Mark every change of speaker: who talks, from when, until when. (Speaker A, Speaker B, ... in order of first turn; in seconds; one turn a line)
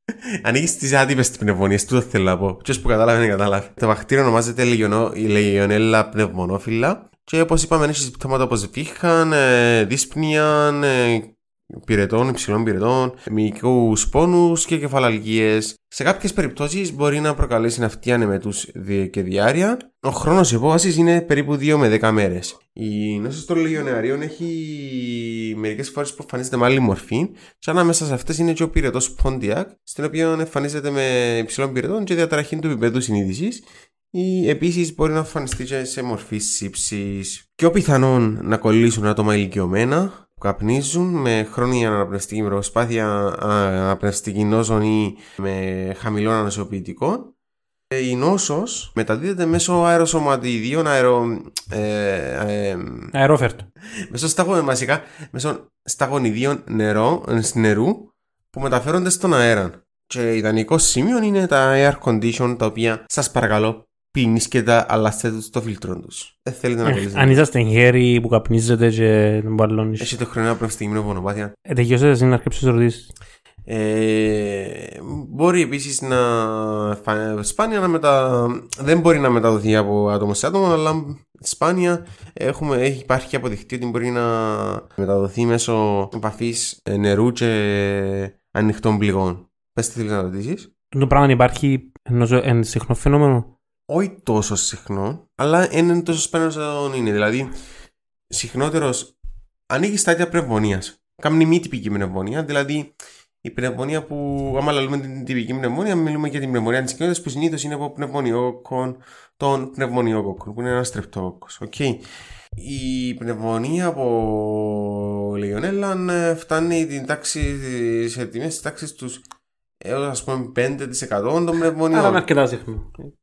Speaker A: 0.4-47.3
Speaker A: 47.9-53.1
Speaker B: 53.1-53.7
Speaker A: 54.1-67.4
Speaker B: 66.8-70.1
Speaker A: 70.0-71.5
Speaker B: 71.7-73.1
Speaker A: 73.7-90.7
Speaker B: 90.9-93.5
Speaker A: 93.9-97.5
Speaker A: 98.3-99.2
Speaker A: 99.7-102.9
Speaker A: 103.4-112.0
Speaker A: 112.6-119.2
Speaker A: 119.8-122.3
Speaker B: 121.9-123.1